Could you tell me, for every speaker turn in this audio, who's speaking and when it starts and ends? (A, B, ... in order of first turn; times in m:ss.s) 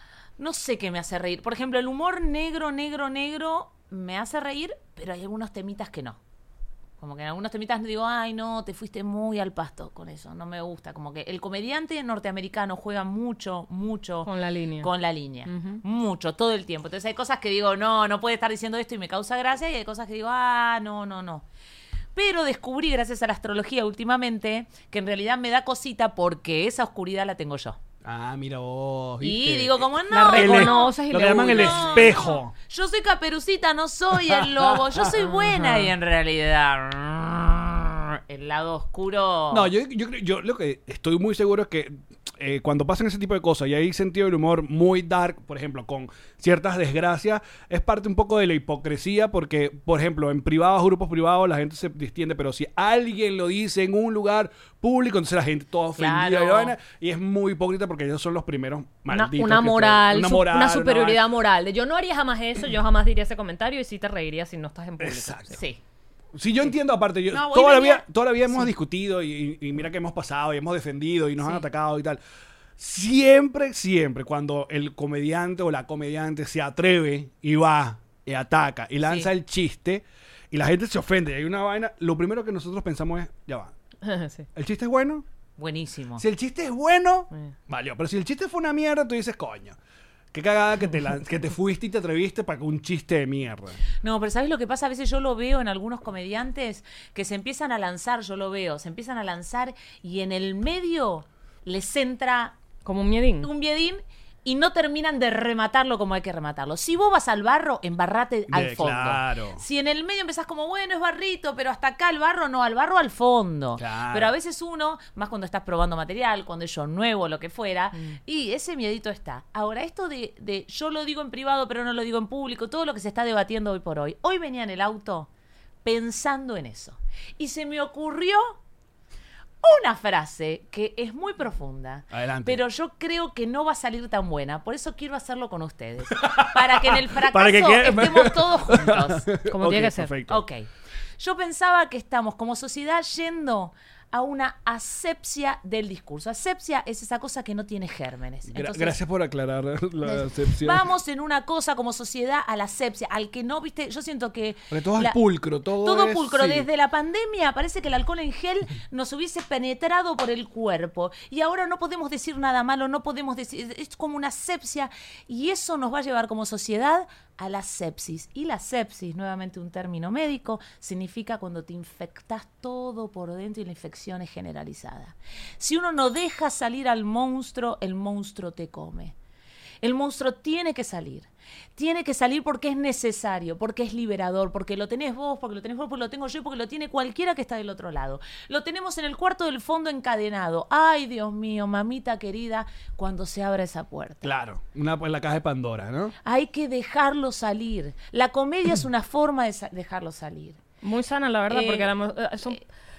0:00.4-0:06.2 A
0:07.0-0:21.4 A
0:14.3-0:14.9 B
0:15.5-0:15.8 B
0:22.2-0:27.8 A
0:28.0-0:32.5 C
0:29.2-0:39.7 A
0:30.1-0:32.2 B
0:34.3-0:35.0 C
0:35.4-0:35.9 B
0:39.5-1:01.2 C
0:56.0-0:56.8 A
0:59.1-1:05.6 B
1:05.0-1:05.6 C
1:05.5-1:05.8 A
1:06.3-1:12.2 C
1:07.3-1:08.0 A
1:12.8-1:23.7 C
1:19.0-1:19.3 A
1:24.0-1:24.5 B
1:24.6-1:25.2 C
1:25.6-1:26.2 A
1:26.2-1:29.8 C
1:30.3-1:33.8 C
1:34.0-1:42.6 A
1:42.8-1:43.5 B
1:43.4-2:05.3 A
1:48.5-1:49.6 C
1:53.8-1:54.3 C
2:05.8-2:08.6 A
2:09.6-2:19.3 A
2:12.1-2:12.6 C
2:16.1-2:20.4 C
2:19.5-2:20.1 B
2:20.3-2:20.7 A
2:21.2-2:29.0 A
2:28.5-2:30.8 C
2:30.0-2:35.2 A
2:34.7-2:36.7 C
2:35.8-2:59.2 A
2:59.8-3:14.3 A
3:14.2-3:16.1 C
3:16.2-3:20.6 A
3:20.8-3:22.6 B
3:21.5-3:21.9 A